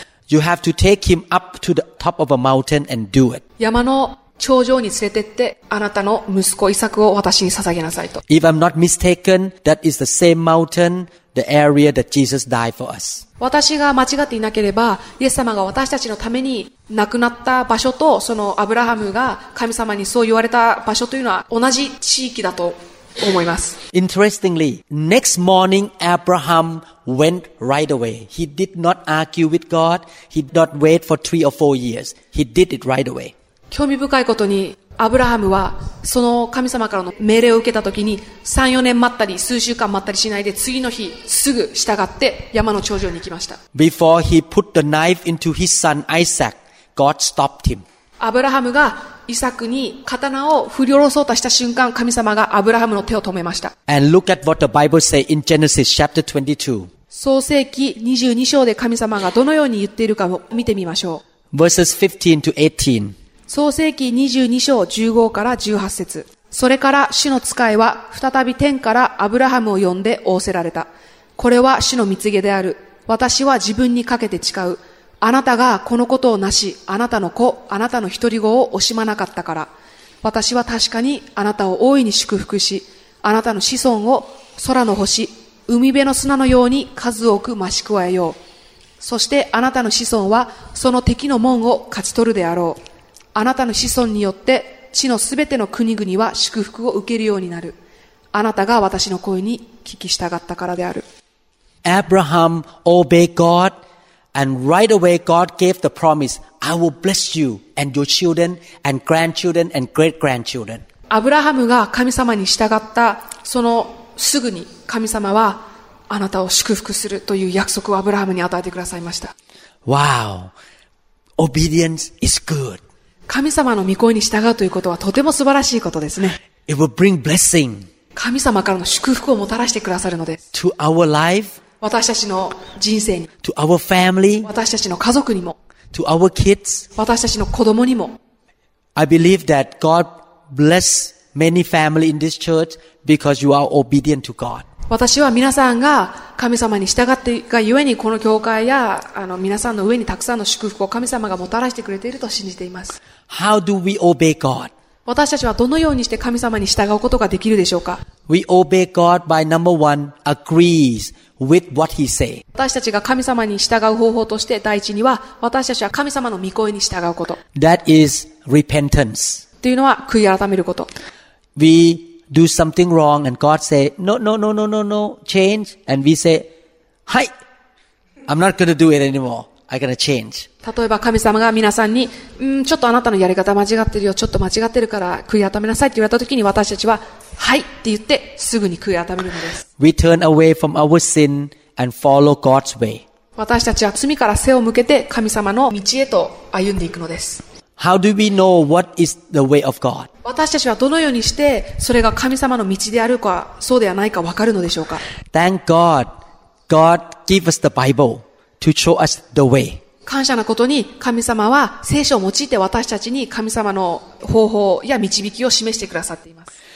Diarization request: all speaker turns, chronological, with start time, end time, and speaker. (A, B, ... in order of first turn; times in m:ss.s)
0:00.3-0:03.4 A
0:03.6-0:08.2 B
0:08.3-0:13.2 A
0:13.4-0:23.8 B
0:23.9-0:33.3 A
0:33.7-0:43.6 B
0:43.7-0:47.8 A
0:48.2-0:53.7 B
0:53.9-0:56.9 A
0:57.1-1:01.2 B
1:01.5-1:03.1 A
1:03.5-1:19.7 B
1:20.2-1:28.4 B
1:29.0-1:32.8 B
1:33.3-1:37.8 B
1:38.3-1:41.0 B
1:41.8-1:43.7 A
1:44.3-1:50.8 A
1:51.1-1:59.3 B
1:59.8-2:00.5 A
2:01.4-2:02.8 A
2:03.3-2:06.4 B
2:06.7-2:07.9 A
2:08.1-2:10.4 B
2:10.5-2:11.6 A
2:11.8-2:13.3 B
2:13.4-2:14.5 A
2:14.4-2:15.6 B
2:15.9-2:16.9 A
2:17.0-2:18.1 B
2:19.0-2:24.7 A
2:24.9-2:33.0 B
2:33.3-2:34.7 A
2:35.0-2:38.0 B
2:38.3-2:42.4 A
2:42.5-2:47.4 B
2:47.5-2:49.4 A
2:49.6-2:50.9 B
2:51.6-2:56.5 A
2:58.3-3:00.5 A
3:00.6-3:09.6 B
3:09.8-3:13.0 A
3:13.4-3:17.4 B
3:17.8-3:20.1 A
3:20.2-3:25.0 B
3:25.3-3:26.1 A
3:26.7-3:29.8 A
3:30.0-3:36.5 B